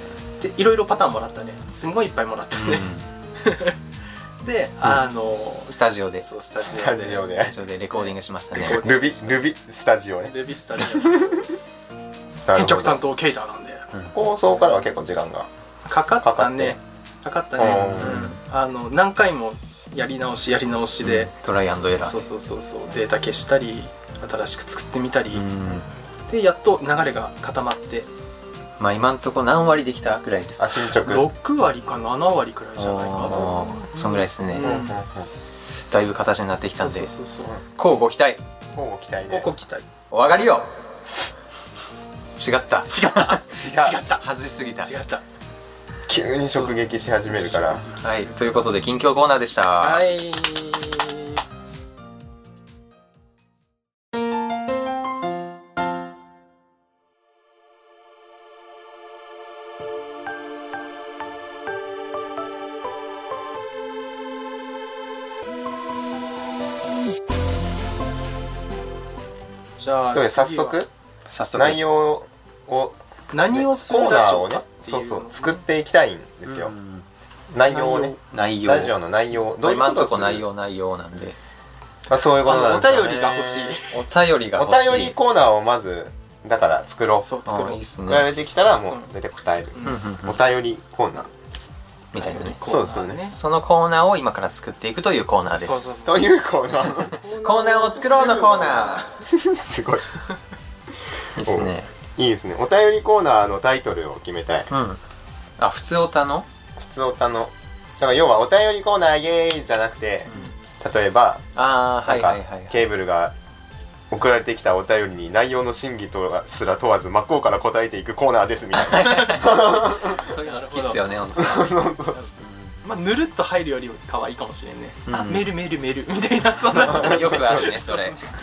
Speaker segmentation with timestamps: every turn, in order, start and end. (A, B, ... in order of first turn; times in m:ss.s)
0:00.4-0:03.8 A
0:02.5-0:03.0 B
0:04.4-0:07.4 A
0:05.7-0:06.2 B
0:06.6-0:07.5 C
0:07.3-0:08.9 B
0:07.9-0:09.4 A
0:08.6-0:11.5 C
0:10.3-0:11.5 A
0:12.5-0:13.0 C
0:12.5-0:13.9 A
0:14.1-0:15.5 C
0:15.9-0:21.3 A
0:16.2-0:16.8 C
0:17.6-0:18.2 C
0:17.9-0:18.4 B
0:21.0-0:22.2 B
0:22.0-0:28.1 A
0:25.3-0:25.9 B
0:28.8-0:31.0 B
0:30.6-0:31.3 C
0:31.0-0:35.0 A
0:32.8-0:34.8 B
0:34.6-0:35.3 C
0:35.9-0:37.1 B
0:36.8-0:37.6 A
0:37.8-0:38.4 B
0:38.8-0:39.5 C
0:39.3-0:39.9 A
0:40.1-0:40.7 B
0:42.4-0:44.9 B
0:42.9-0:44.2 A
0:43.5-0:44.0 C
0:44.8-0:45.2 A
0:46.1-0:47.9 C
0:47.3-0:48.4 A
0:48.0-0:50.0 B
0:49.8-0:51.4 A
1:09.8-1:10.8 A
1:10.1-1:10.9 C
1:11.3-1:11.8 B
1:11.5-1:13.0 C
1:13.3-1:15.6 A
1:13.5-1:16.7 C
1:16.5-1:17.0 B
1:17.5-1:20.4 C
1:17.7-1:18.2 A
1:18.2-1:18.9 B
1:19.6-1:21.4 B
1:22.1-1:23.8 C
1:22.4-1:24.0 A
1:23.9-1:25.1 B
1:24.6-1:27.3 C
1:27.2-1:27.8 A
1:27.4-1:28.3 B
1:28.1-1:31.3 C
1:29.8-1:30.4 B
1:32.1-1:32.6 B
1:32.2-1:33.4 A
1:32.6-1:33.2 C
1:33.3-1:35.9 B
1:35.5-1:36.3 A
1:36.0-1:37.2 C
1:37.0-1:39.1 A
1:37.4-1:39.1 B
1:39.2-1:40.2 C
1:41.4-1:41.9 B
1:41.4-1:44.7 C
1:44.7-1:45.0 B
1:45.6-1:46.5 B
1:46.8-1:51.5 C
1:51.6-1:52.8 B
1:52.0-1:53.3 C
1:54.1-2:00.2 C
1:58.8-2:02.8 B
1:59.0-2:01.0 A
2:01.4-2:02.2 C
2:02.1-2:08.3 A
2:05.1-2:05.5 B
2:06.8-2:08.2 B
2:06.9-2:07.6 C